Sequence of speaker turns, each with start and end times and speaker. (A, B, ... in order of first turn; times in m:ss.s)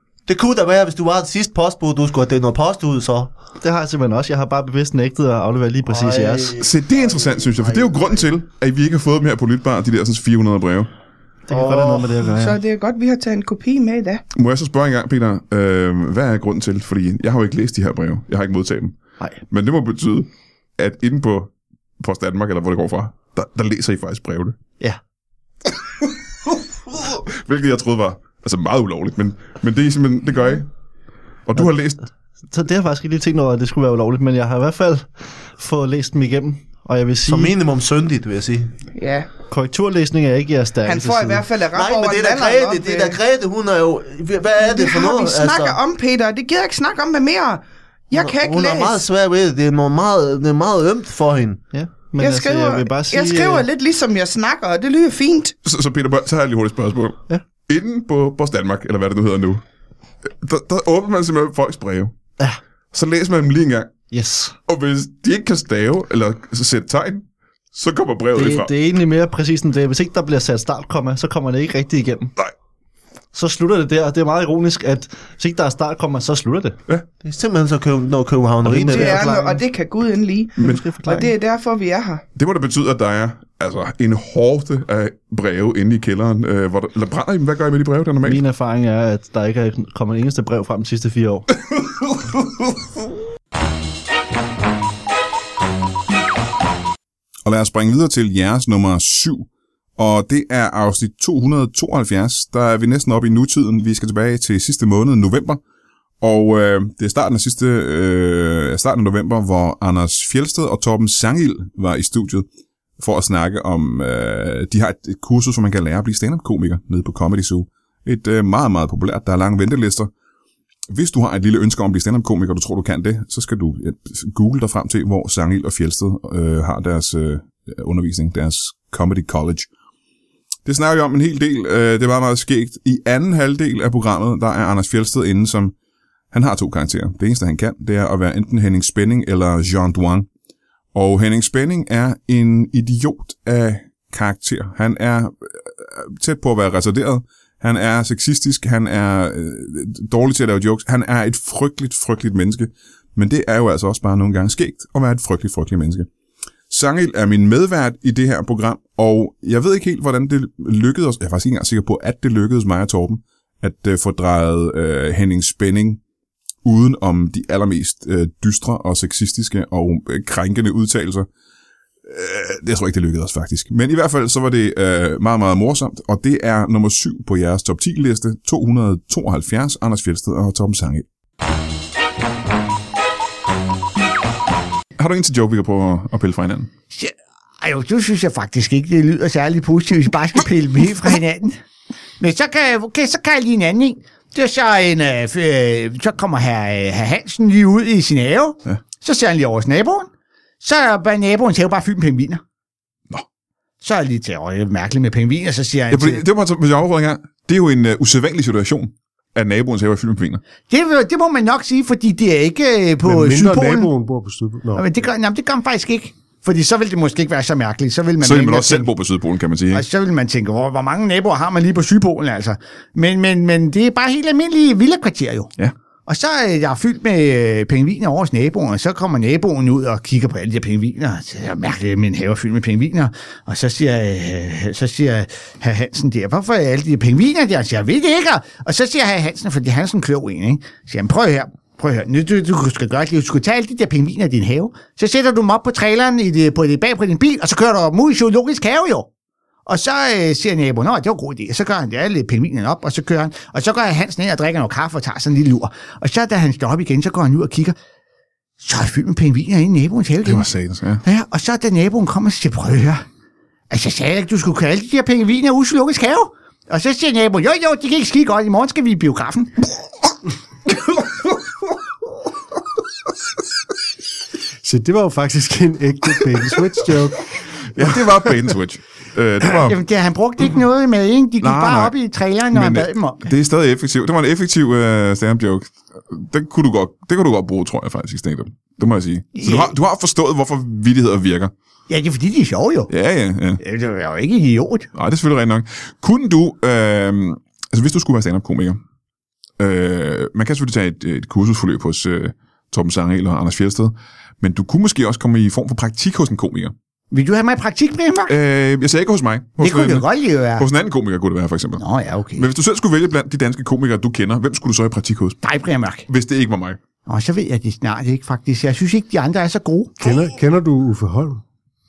0:00.3-0:03.4 A
0:03.5-0:06.5 B
0:05.8-0:08.3 A
0:06.6-0:10.9 C
0:11.5-0:12.6 B
0:11.5-0:12.3 A
0:12.3-0:14.2 D
0:14.3-0:24.6 C
0:27.0-0:30.7 C
0:31.5-0:32.0 C
0:32.5-0:37.6 B
0:37.3-0:38.7 A
0:38.9-0:39.3 D
0:39.5-0:41.4 B
0:40.8-0:43.2 D
0:41.7-0:45.8 A
0:44.6-0:49.1 D
0:48.1-0:51.8 A
0:51.8-0:53.7 B
0:52.2-0:55.6 D
0:55.6-0:59.6 C
1:00.3-1:02.2 C
1:02.9-1:04.0 C
1:04.1-1:04.6 B
1:04.7-1:08.7 C
1:08.3-1:12.3 B
1:13.3-1:16.8 B
1:17.2-1:19.6 A
1:18.6-1:19.5 B
1:18.8-1:22.2 D
1:20.6-1:21.3 A
1:22.4-1:28.4 C
1:28.2-1:31.5 B
1:37.4-1:45.6 C
1:46.2-1:52.5 C
1:53.0-2:00.1 C
2:00.9-2:09.7 C
2:10.6-2:15.8 C
2:16.3-2:20.3 C
2:20.9-2:36.1 C
2:36.7-2:46.0 C
2:46.6-2:51.3 C
2:52.1-3:01.1 C
3:05.0-3:06.7 C
3:06.9-3:11.6 E
3:12.2-3:20.1 E
3:20.6-3:22.4 E
3:23.8-3:26.2 E
3:25.9-3:30.4 C
3:30.7-3:33.9 E
3:33.0-3:34.9 F
3:34.7-3:38.9 E
3:38.2-3:39.8 C
3:39.7-3:45.5 E
3:46.1-4:09.1 E
4:09.7-4:17.8 E
4:18.6-4:20.5 E
4:20.2-4:21.0 C
4:21.0-4:23.0 E
4:23.7-4:29.5 E
4:34.6-4:38.0 F
4:37.7-4:39.8 C
4:39.5-4:43.2 E
4:41.4-4:42.0 C
4:42.5-4:51.5 C
4:49.4-4:49.7 E
4:51.9-4:52.9 E
4:52.9-4:53.6 C
4:53.6-4:54.9 E
4:55.0-4:58.8 C
4:59.6-5:06.8 C
5:07.1-5:08.4 E
5:08.3-5:11.8 C
5:09.6-5:10.7 E
5:11.8-5:12.5 E
5:12.4-5:15.4 C
5:15.4-5:16.0 E
5:16.1-5:16.8 C
5:17.1-5:20.1 E
5:20.0-5:21.4 F